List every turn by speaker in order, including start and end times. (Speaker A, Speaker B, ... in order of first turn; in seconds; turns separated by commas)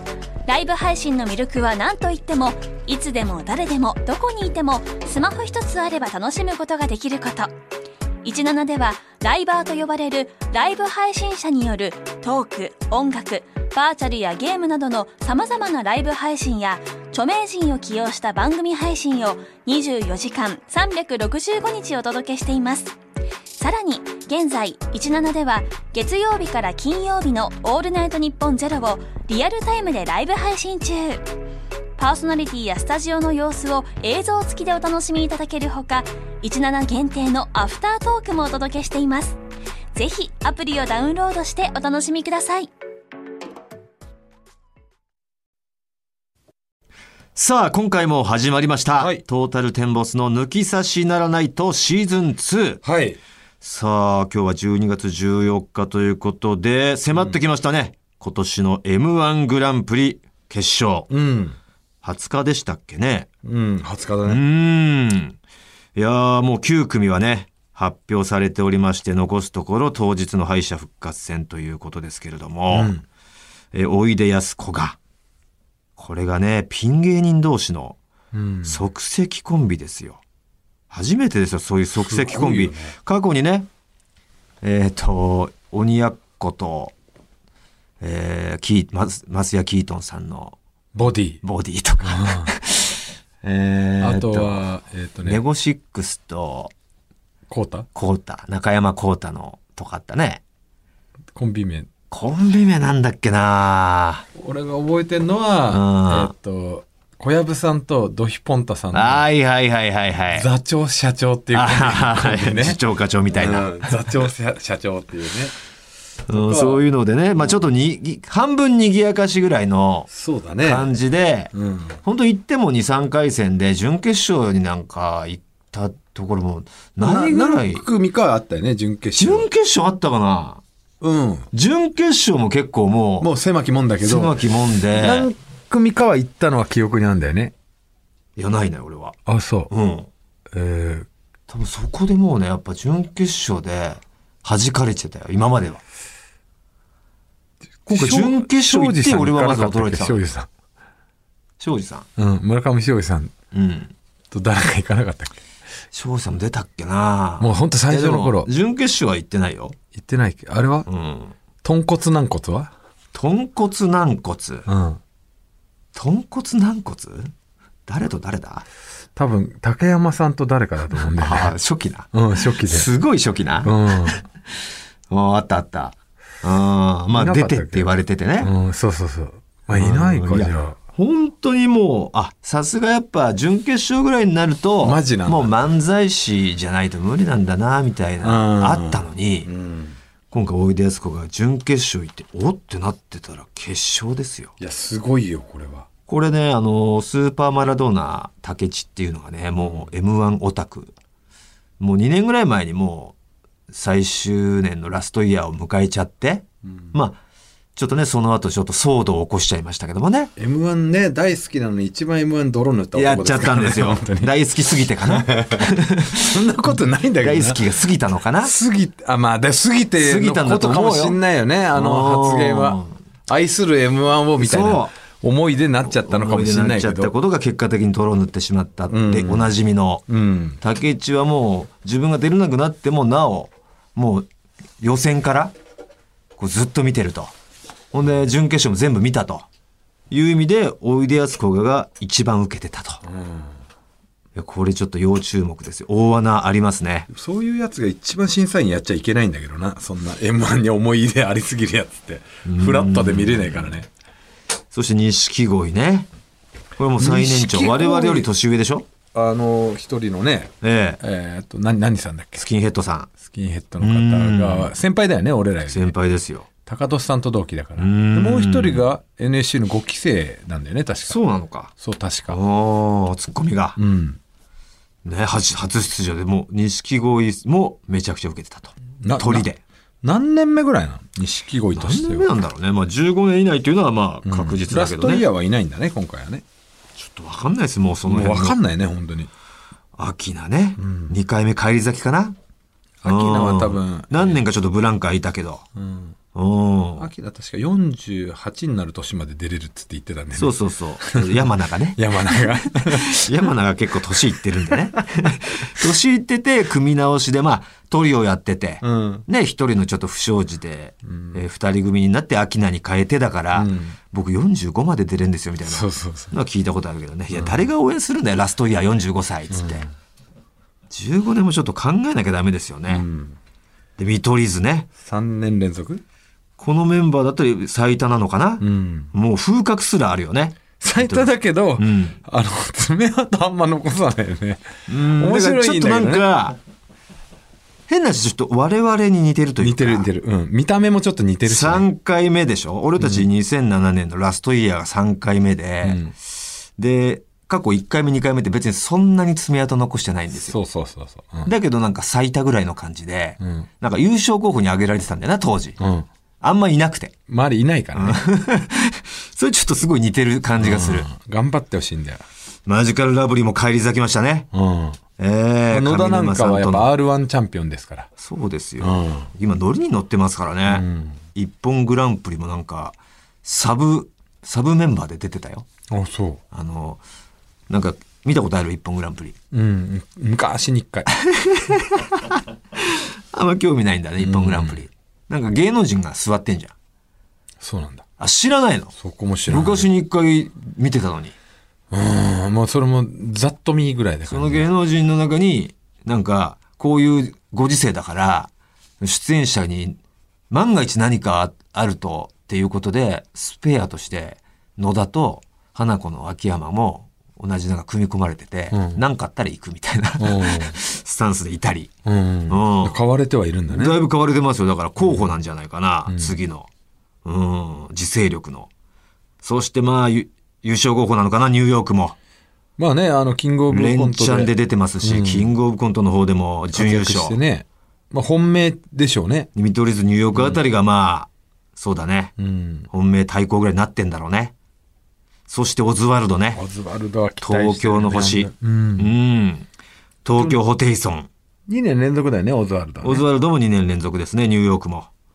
Speaker A: 0.5-7.5, Speaker A: 8.2-22.9, Speaker A: 23.6-31.2, Speaker A: 32.0-39.4, Speaker A: 39.9-42.7, Speaker B: 47.3-52.8, Speaker C: 49.0-49.2, Speaker C: 52.8-53.2, Speaker B: 53.6-61.1, Speaker C: 61.1-61.6, Speaker B: 62.0-63.3, Speaker C: 63.4-64.4, Speaker B: 64.2-65.4, Speaker B: 65.9-72.9, Speaker C: 72.7-73.0, Speaker B: 73.7-75.0, Speaker B: 76.0-78.0, Speaker C: 78.3-78.8, Speaker B: 78.6-80.2, Speaker B: 80.9-83.7, Speaker C: 82.0-82.9, Speaker B: 84.6-86.9, Speaker B: 88.0-90.5, Speaker C: 90.9-91.4, Speaker B: 91.4-94.6, Speaker C: 92.0-92.5, Speaker C: 94.0-95.4, Speaker B: 95.2-96.7, Speaker C: 97.5-97.9, Speaker B: 97.9-100.4, Speaker C: 101.3-101.9, Speaker B: 102.1-104.2, Speaker C: 104.3-109.3, Speaker B: 105.7-106.3, Speaker B: 108.9-110.5, Speaker C: 110.3-112.8, Speaker B: 111.5-114.0, Speaker C: 113.3-115.5, Speaker B: 116.3-120.1, Speaker C: 116.3-116.8, Speaker C: 120.1-120.9, Speaker B: 120.6-121.5, Speaker C: 121.5-122.0, Speaker B: 122.0-127.8, Speaker C: 127.0-129.4, Speaker B: 129.2-130.6, Speaker C: 131.0-131.5, Speaker B: 131.5-133.3, Speaker C: 133.2-134.3, Speaker B: 134.0-135.3, Speaker C: 134.9-137.5, Speaker B: 138.3-139.2, Speaker C: 139.2-139.7, Speaker B: 139.7-140.1, Speaker C: 140.5-141.1, Speaker B: 141.5-145.8, Speaker C: 147.8-150.5, Speaker B: 147.9-150.2, Speaker B: 151.6-152.1, Speaker C: 152.2-153.3, Speaker B: 153.5-153.9, Speaker C: 154.3-155.4, Speaker B: 155.9-159.8, Speaker C: 157.4-158.5, Speaker C: 159.9-160.9, Speaker B: 160.9-161.3, Speaker C: 161.6-162.7, Speaker B: 163.1-164.7, Speaker C: 164.7-165.0, Speaker B: 165.9-167.3, Speaker B: 167.9-168.7, Speaker C: 169.2-171.5, Speaker B: 171.1-174.6, Speaker C: 172.1-172.9, Speaker C: 173.6-174.2, Speaker B: 175.1-178.5, Speaker C: 177.1-180.8, Speaker B: 179.7-189.5, Speaker C: 184.8-185.6, Speaker C: 188.2-190.0, Speaker B: 190.3-194.5, Speaker C: 194.6-195.9, Speaker B: 196.1-200.9, Speaker C: 199.6-199.9, Speaker B: 201.8-203.2, Speaker B: 203.7-207.2, Speaker B: 207.8-210.3, Speaker C: 210.3-214.3, Speaker B: 212.9-216.5, Speaker C: 215.0-217.6, Speaker B: 217.2-218.5, Speaker C: 218.4-227.1, Speaker B: 220.0-221.2, Speaker B: 221.7-222.9, Speaker B: 224.4-224.9, Speaker B: 225.8-230.0, Speaker C: 228.9-229.5, Speaker C: 230.1-230.6, Speaker B: 230.6-234.3, Speaker B: 234.8-235.5, Speaker B: 236.4-237.3, Speaker B: 237.9-239.4, Speaker B: 240.1-243.0, Speaker C: 243.1-243.5, Speaker B: 244.3-247.1, Speaker C: 247.1-253.9, Speaker B: 252.4-253.8, Speaker B: 254.7-256.1, Speaker B: 256.8-258.9, Speaker C: 257.0-258.3, Speaker C: 259.1-262.5, Speaker B: 260.6-261.0, Speaker B: 262.4-263.1, Speaker C: 263.2-265.9, Speaker B: 263.8-264.7, Speaker B: 265.7-266.4, Speaker C: 266.6-271.2, Speaker B: 267.8-268.8, Speaker B: 271.1-271.7, Speaker C: 271.8-272.4, Speaker B: 272.3-273.8, Speaker C: 273.8-274.2, Speaker B: 275.0-279.6, Speaker C: 279.0-279.5, Speaker C: 280.0-282.3, Speaker B: 281.7-285.2, Speaker C: 284.2-286.4, Speaker B: 286.9-288.6, Speaker C: 288.1-289.3, Speaker B: 289.9-292.4, Speaker C: 290.8-291.1, Speaker C: 293.0-294.4, Speaker B: 293.0-295.6, Speaker C: 295.8-296.1, Speaker B: 296.3-297.1, Speaker C: 297.0-303.2, Speaker B: 300.3-319.9, Speaker C: 308.8-309.2, Speaker C: 313.5-314.0, Speaker C: 315.6-316.3, Speaker C: 319.5-319.9, Speaker B: 320.9-323.0, Speaker C: 322.9-323.4, Speaker B: 324.0-324.9, Speaker C: 325.0-326.0, Speaker B: 326.6-332.1, Speaker C: 328.6-329.1, Speaker C: 330.8-336.2, Speaker B: 334.9-336.6, Speaker B: 337.9-340.1, Speaker C: 339.6-341.9, Speaker B: 341.4-346.1, Speaker C: 343.0-343.2, Speaker C: 345.8-346.1, Speaker B: 346.8-350.6, Speaker C: 350.4-351.5, Speaker B: 351.4-355.8, Speaker C: 353.4-353.6, Speaker C: 355.8-356.1, Speaker B: 356.4-357.1, Speaker C: 357.3-358.2, Speaker B: 357.9-361.1, Speaker C: 360.6-362.2, Speaker B: 362.6-364.5, Speaker C: 364.5-365.0, Speaker B: 365.2-366.9, Speaker C: 365.7-368.1, Speaker B: 368.2-375.6, Speaker C: 368.8-369.3, Speaker C: 370.7-371.2, Speaker C: 375.9-376.4, Speaker B: 376.5-377.0, Speaker B: 377.7-379.4, Speaker C: 379.5-381.1, Speaker B: 381.1-386.7, Speaker C: 384.2-384.8, Speaker C: 387.6-388.0, Speaker B: 388.2-388.9, Speaker C: 389.0-389.9, Speaker B: 389.5-391.3, Speaker C: 391.9-394.7, Speaker B: 394.3-400.0, Speaker B: 400.5-411.9, Speaker C: 408.7-409.0, Speaker C: 410.2-410.8, Speaker C: 412.1-414.0, Speaker B: 412.5-413.0, Speaker B: 413.7-416.7, Speaker C: 415.0-415.3, Speaker C: 416.1-416.4, Speaker B: 417.2-418.7, Speaker B: 419.4-422.1, Speaker C: 422.8-425.5, Speaker B: 423.7-427.4, Speaker C: 426.7-429.5, Speaker B: 429.5-432.3, Speaker C: 432.4-432.9, Speaker B: 432.9-434.5, Speaker B: 435.5-436.6, Speaker C: 436.5-439.1, Speaker B: 437.4-439.7, Speaker B: 440.2-441.3, Speaker C: 441.7-443.2, Speaker B: 443.0-445.1